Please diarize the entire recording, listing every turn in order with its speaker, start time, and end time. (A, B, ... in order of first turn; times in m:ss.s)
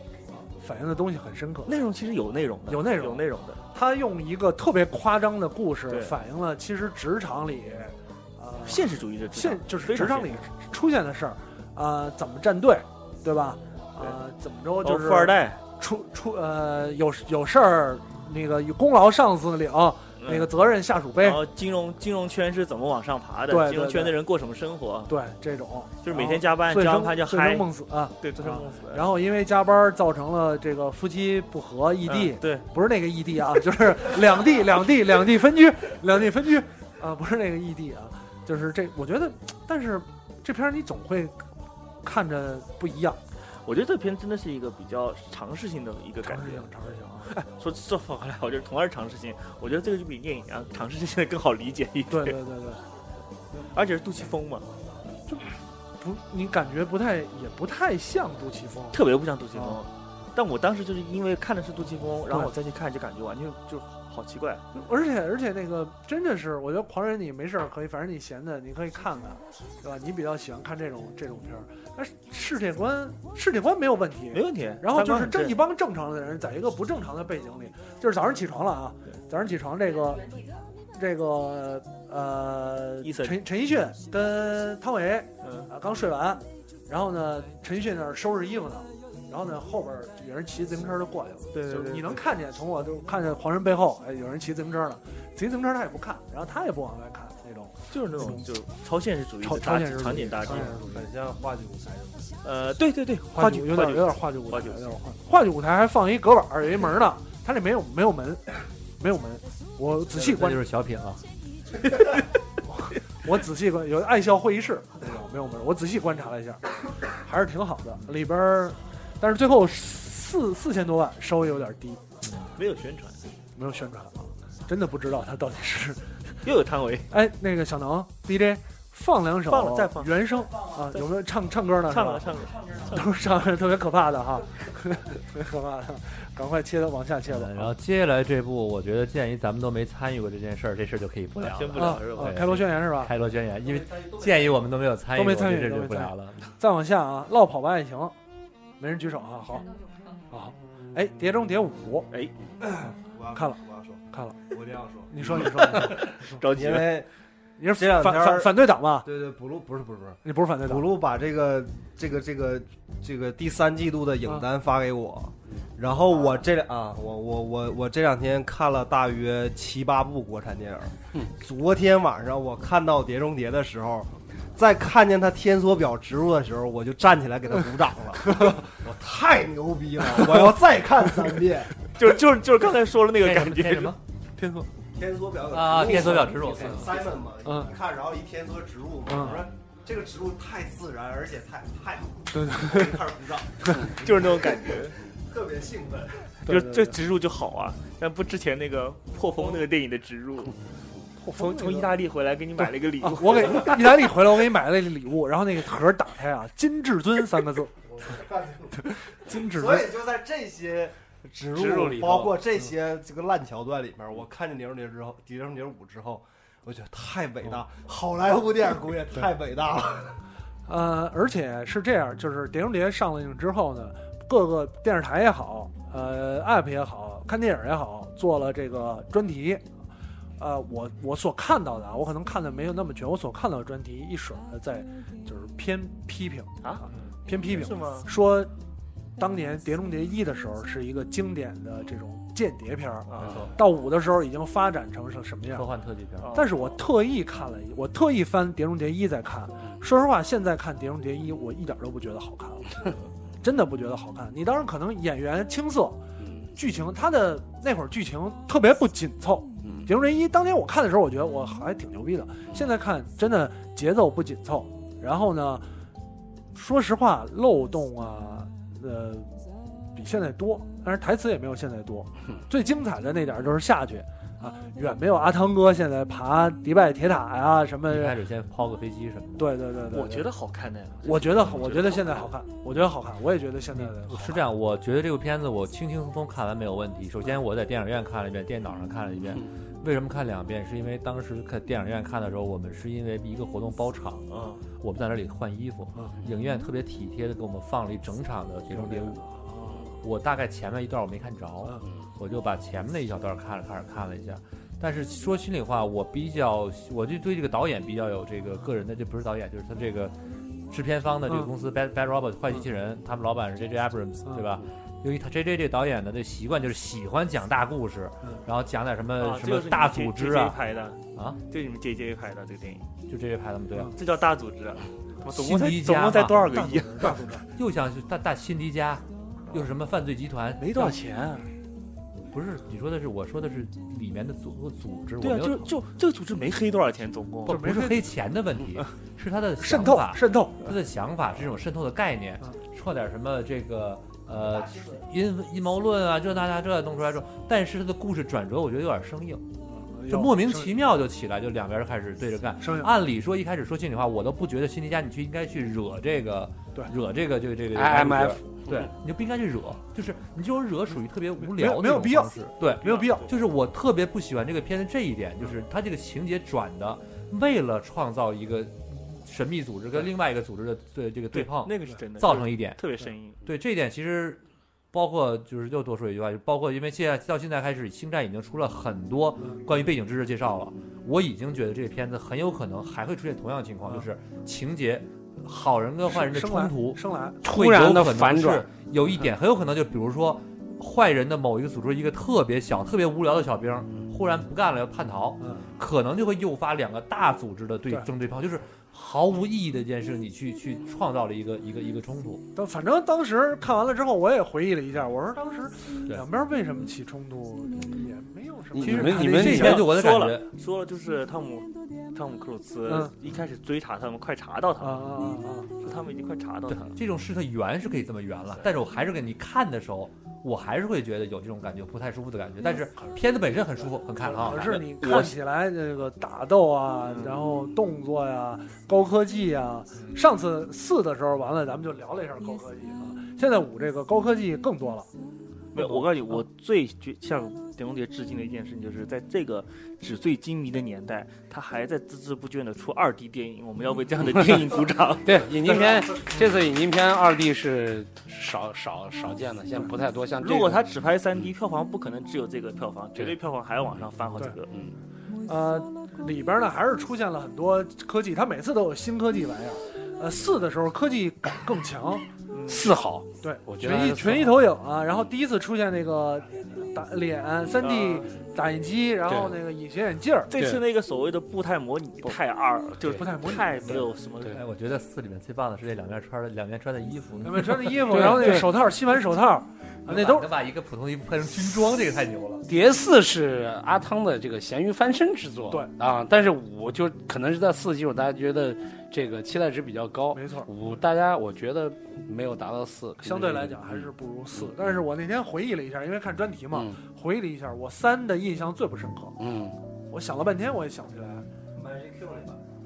0:00.3-0:01.7 A
0:01.6-0:03.6 B
0:02.7-0:21.4 A
0:05.9-0:06.1 B
0:08.6-0:10.4 B
0:14.8-0:15.6 B
0:20.2-0:20.5 B
0:21.2-0:25.1 B
0:23.5-0:24.2 A
0:25.1-0:41.4 A
0:26.0-0:27.7 B
0:28.2-0:29.2 B
0:32.0-0:32.7 B
0:42.0-0:43.2 A
0:43.6-0:46.6 B
0:46.2-0:47.4 A
0:47.4-0:52.4 B
0:52.1-0:52.8 A
0:53.5-0:54.7 B
0:56.0-0:59.0 A
0:58.9-1:04.6 B
0:59.5-0:59.8 A
1:04.7-1:20.3 A
1:14.3-1:15.6 B
1:20.9-1:38.4 A
1:23.0-1:23.4 B
1:25.4-1:25.7 B
1:31.5-1:32.2 B
1:37.9-1:40.8 B
1:39.4-1:41.0 A
1:40.4-1:42.3 C
1:42.4-1:45.0 B
1:43.3-1:50.7 A
1:50.1-1:51.2 D
1:52.7-2:02.0 A
2:02.2-2:02.5 D
2:02.6-2:03.2 B
2:03.6-2:06.4 A
2:06.4-2:07.1 B
2:07.1-2:17.7 A
2:09.4-2:11.1 B
2:11.8-2:13.2 B
2:17.3-2:26.5 D
2:21.4-2:22.4 B
2:21.8-2:23.1 A
2:23.9-2:24.5 C
2:25.1-2:28.1 A
2:28.8-2:29.7 A
2:30.3-2:32.1 A
2:32.6-2:35.7 C
2:33.3-2:33.6 A
2:34.1-2:34.4 A
2:35.1-2:36.4 A
2:36.0-2:37.0 B
2:36.5-2:37.1 C
2:37.6-2:39.1 A
2:37.7-3:01.7 C
2:40.2-2:40.8 A
3:02.0-3:04.0 B
3:03.2-3:04.0 D
3:04.4-3:04.7 A
3:04.9-3:16.3 C
3:05.5-3:07.0 D
3:07.4-3:07.7 A
3:09.1-3:09.4 A
3:12.3-3:12.9 A
3:14.0-3:14.9 B
3:16.4-3:20.6 B
3:16.4-3:17.0 A
3:21.2-3:21.9 A
3:21.3-3:24.0 B
3:23.0-3:27.7 A
3:27.9-3:40.2 C
3:28.9-3:29.9 A
3:31.5-3:32.3 E
3:40.6-3:49.6 A
3:50.4-3:58.5 A
3:56.6-3:58.1 B
3:59.2-4:05.7 A
4:03.1-4:03.5 B
4:05.5-4:06.3 D
4:06.2-4:06.8 B
4:06.3-4:16.0 A
4:16.2-4:16.5 E
4:16.5-4:25.7 A
4:19.6-4:19.9 E
4:26.5-4:29.3 A
4:29.9-4:38.2 A
4:37.9-4:39.6 D
4:39.4-4:40.2 A
4:39.9-4:42.3 B
4:41.0-4:44.5 A
4:43.7-4:54.2 D
4:54.3-4:54.6 B
4:54.8-4:59.2 D
4:58.7-4:59.9 A
5:00.0-5:10.1 D
5:10.7-5:20.6 D
5:19.2-5:22.9 B
5:21.1-5:21.4 D
5:23.1-5:23.9 D
5:23.9-5:27.2 B
5:25.3-5:26.6 D
5:26.3-5:27.4 A
5:27.6-5:31.0 D
5:30.6-5:31.4 B
5:32.3-5:35.7 D
5:35.2-5:37.6 B
5:37.4-5:49.4 D
5:37.5-5:38.1 A
5:39.6-5:40.7 A
5:49.7-5:50.7 A
5:50.1-6:12.9 D
5:52.6-5:52.9 A
5:57.7-5:58.9 E
6:01.4-6:03.3 A
6:02.8-6:03.2 B
6:11.3-6:13.4 B
6:13.4-6:14.4 D
6:14.9-6:42.5 D
6:26.1-6:27.4 A
6:27.4-6:28.7 E
6:35.4-6:35.7 A
6:42.5-6:49.9 A
6:48.7-6:49.8 E
6:48.8-6:50.5 D
6:49.4-6:57.0 B
6:52.9-6:53.1 A
6:54.8-6:55.7 A
6:56.7-7:04.9 D
7:04.2-7:15.1 A
7:05.0-7:05.3 B
7:07.1-7:07.5 B
7:15.7-7:25.9 B
7:24.4-7:24.6 E
7:25.2-7:30.9 E
7:30.4-7:34.7 B
7:35.4-7:42.3 A
7:42.5-7:42.9 B
7:42.7-7:44.7 E
7:43.4-7:50.5 A
7:47.8-7:48.3 B
7:49.3-7:49.6 E
7:50.5-7:54.6 B
7:50.6-7:50.8 E
7:53.1-7:54.1 A
7:54.5-7:58.6 D
7:57.4-8:00.5 A
7:58.1-7:58.7 E
8:00.0-8:02.6 D
8:02.7-8:14.7 E
8:10.3-8:10.7 A
8:13.2-8:19.4 A
8:16.7-8:17.0 E
8:19.4-8:19.7 E
8:20.1-8:21.5 A
8:21.7-8:22.6 C